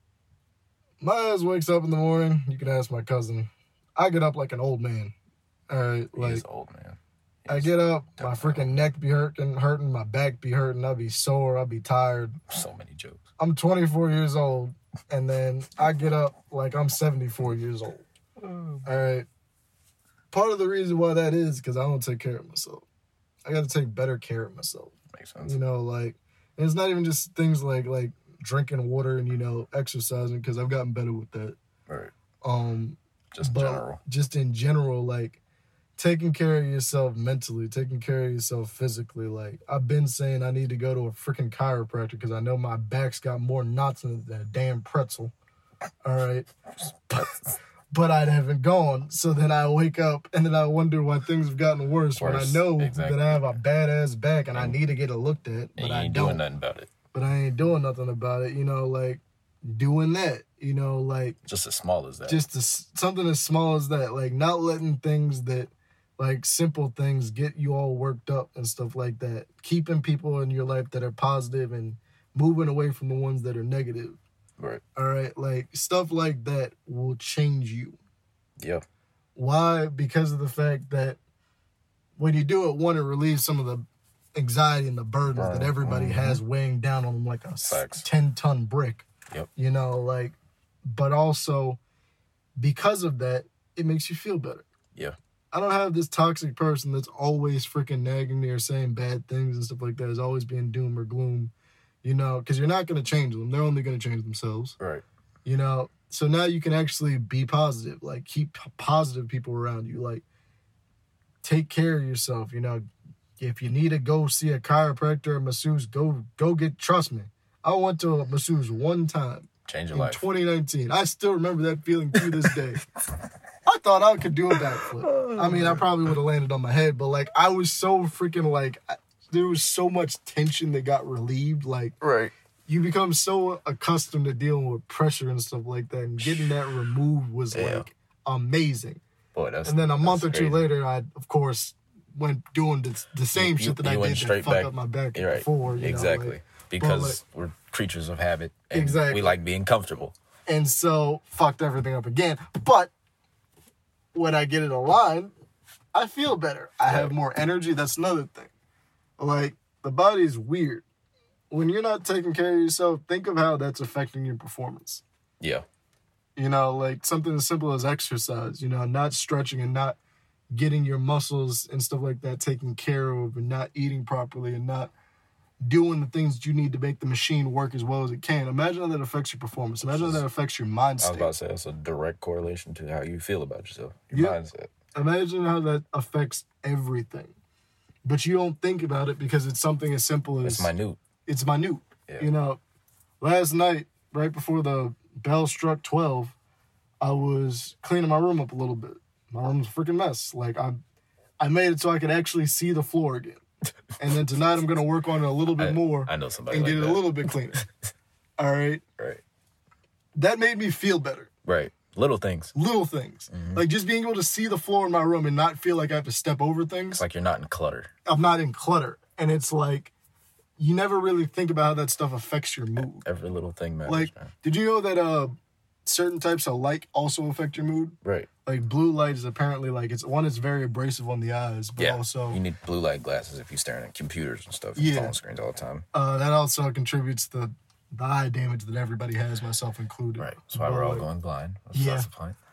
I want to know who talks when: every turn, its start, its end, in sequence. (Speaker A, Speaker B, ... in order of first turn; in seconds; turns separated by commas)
Speaker A: 1.0-5.1, Speaker A: 5.7-6.4, Speaker B: 6.1-8.8, Speaker A: 7.5-12.4, Speaker B: 12.5-13.2, Speaker A: 13.4-18.0, Speaker B: 18.4-18.8, Speaker A: 18.8-19.2, Speaker A: 20.3-22.9, Speaker A: 23.4-31.6, Speaker B: 25.1-25.6, Speaker A: 32.4-35.4, Speaker B: 33.3-34.0, Speaker A: 36.0-45.3, Speaker A: 46.0-46.5, Speaker A: 47.1-47.4, Speaker A: 47.9-56.4, Speaker B: 52.2-53.5, Speaker B: 55.8-56.9, Speaker A: 57.1-61.4, Speaker B: 61.5-62.4, Speaker A: 62.3-74.2, Speaker A: 75.0-78.0, Speaker B: 78.6-78.8, Speaker A: 79.3-81.2, Speaker A: 82.2-91.8, Speaker B: 85.3-86.4, Speaker B: 87.6-88.0, Speaker A: 92.6-94.7, Speaker A: 95.5-101.5, Speaker A: 102.0-104.8, Speaker A: 105.4-110.2, Speaker A: 111.4-112.8, Speaker A: 113.4-122.8, Speaker B: 119.7-120.2, Speaker B: 122.2-122.5, Speaker A: 123.7-131.9, Speaker B: 124.5-126.1, Speaker B: 132.0-132.3, Speaker A: 132.7-139.0, Speaker B: 136.2-136.5, Speaker B: 137.5-137.9, Speaker B: 139.3-140.7, Speaker A: 139.6-147.2, Speaker B: 143.3-150.1, Speaker A: 148.7-149.4, Speaker A: 150.5-152.9, Speaker A: 154.1-155.3, Speaker A: 155.9-158.5, Speaker B: 156.9-157.1, Speaker A: 159.2-160.8, Speaker A: 161.5-165.0, Speaker A: 166.3-170.0, Speaker A: 170.5-174.9, Speaker A: 175.6-181.3, Speaker B: 179.8-180.2, Speaker B: 181.0-184.7, Speaker A: 184.1-184.4, Speaker A: 184.9-187.3, Speaker A: 188.0-190.7, Speaker B: 190.4-191.0, Speaker A: 191.2-192.6, Speaker A: 193.2-196.3, Speaker A: 197.0-200.8, Speaker A: 201.4-203.4, Speaker A: 204.0-207.6, Speaker B: 205.6-207.6, Speaker A: 208.4-208.8, Speaker A: 210.1-211.3, Speaker B: 211.4-212.5, Speaker A: 212.5-217.0, Speaker B: 213.3-213.6, Speaker B: 217.0-217.9, Speaker A: 218.1-219.9, Speaker A: 220.6-223.1, Speaker B: 222.8-224.3, Speaker A: 223.8-225.3, Speaker A: 225.8-232.4, Speaker B: 228.0-228.3, Speaker B: 231.8-235.8, Speaker A: 234.8-235.1, Speaker A: 235.9-241.1, Speaker B: 240.2-242.3, Speaker A: 241.7-242.1